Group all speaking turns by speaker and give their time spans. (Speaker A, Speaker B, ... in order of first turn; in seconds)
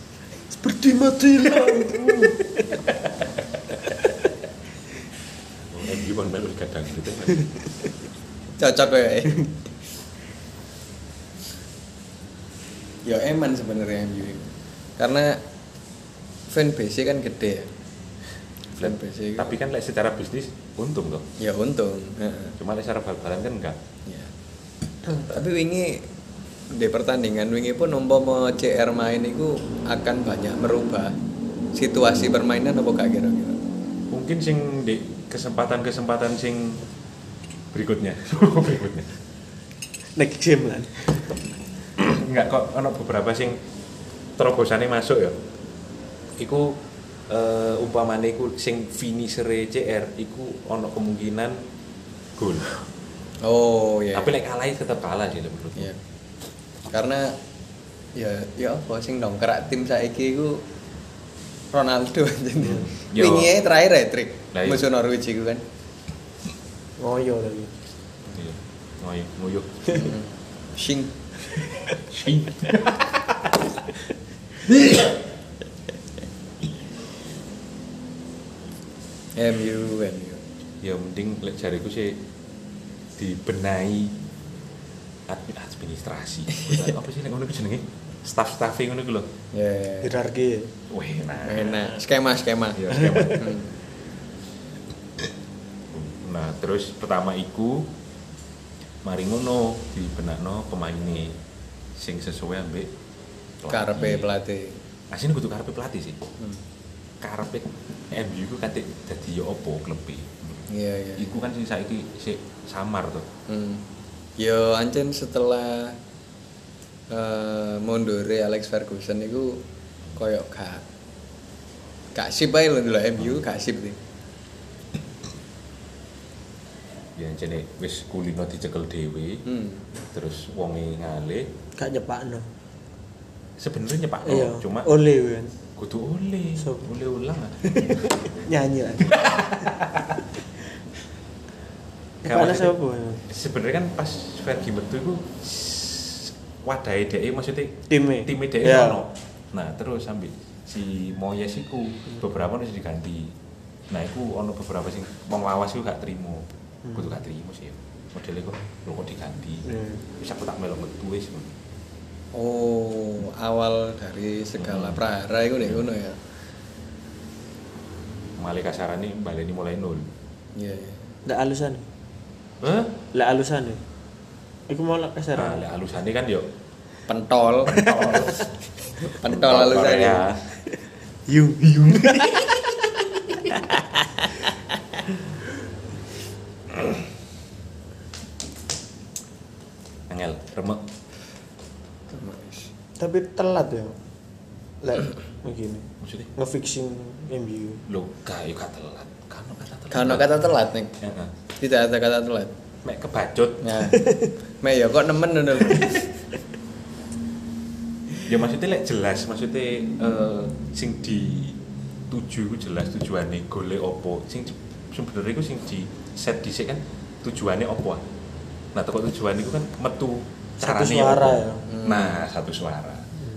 Speaker A: 0.5-2.8, 40.1-41.4, 67.0-67.7, 90.0-90.8, 131.8-132.5, 134.2-135.6, 136.6-136.9, 137.7-139.7, 142.2-143.2, 147.9-149.0, 159.7-160.0, 171.3-171.9, 173.1-173.8, 174.7-175.6, 181.3-183.6, 193.0-194.0, 194.8-197.8, 204.0-204.3, 220.6-221.7
Speaker B: 2.0-2.3, 5.7-7.5, 18.8-21.3, 22.6-23.8, 34.1-36.9, 37.7-39.2, 42.0-43.6, 44.4-45.4, 46.4-51.6, 52.4-52.8, 54.1-55.9, 62.6-63.5, 64.5-64.9, 68.2-70.1, 72.1-73.2, 80.8-82.2, 83.2-84.2, 85.3-89.3, 90.9-91.9, 92.8-93.5, 95.9-97.9, 99.0-101.4, 102.0-103.0, 103.6-104.3, 105.1-106.2, 107.2-113.3, 127.2-129.4, 130.0-131.5, 133.6-134.9, 135.8-138.1, 139.1-140.2, 142.2-142.8, 143.3-153.4, 153.9-161.6, 164.6-165.0, 168.4-170.1, 172.6-173.1, 175.3-176.5, 177.6-178.5, 179.1-180.5, 190.1-190.9, 196.0-196.3, 197.9-200.3, 201.0-201.3, 202.8-203.8, 208.2-218.0, 218.7-223.1
Speaker C: 8.6-9.5, 13.1-15.4, 16.5-17.7, 18.8-19.6, 21.4-22.6, 24.1-24.3, 25.2-26.1, 26.7-31.2, 31.7-33.6, 53.4-54.3, 56.9-57.4, 58.1-60.6, 61.7-65.6, 69.9-71.2, 79.4-80.4, 89.5-90.1, 91.4-93.7, 103.7-104.8, 110.7-111.4, 113.5-113.8, 114.4-116.0, 117.1-119.6, 120.2-120.8, 122.2-124.0, 129.5-129.8, 162.3-166.2, 170.6-171.1, 177.1-178.1, 179.0-180.3, 192.1-192.7, 199.9-200.9, 201.6-202.5, 203.6-206.1, 221.7-222.2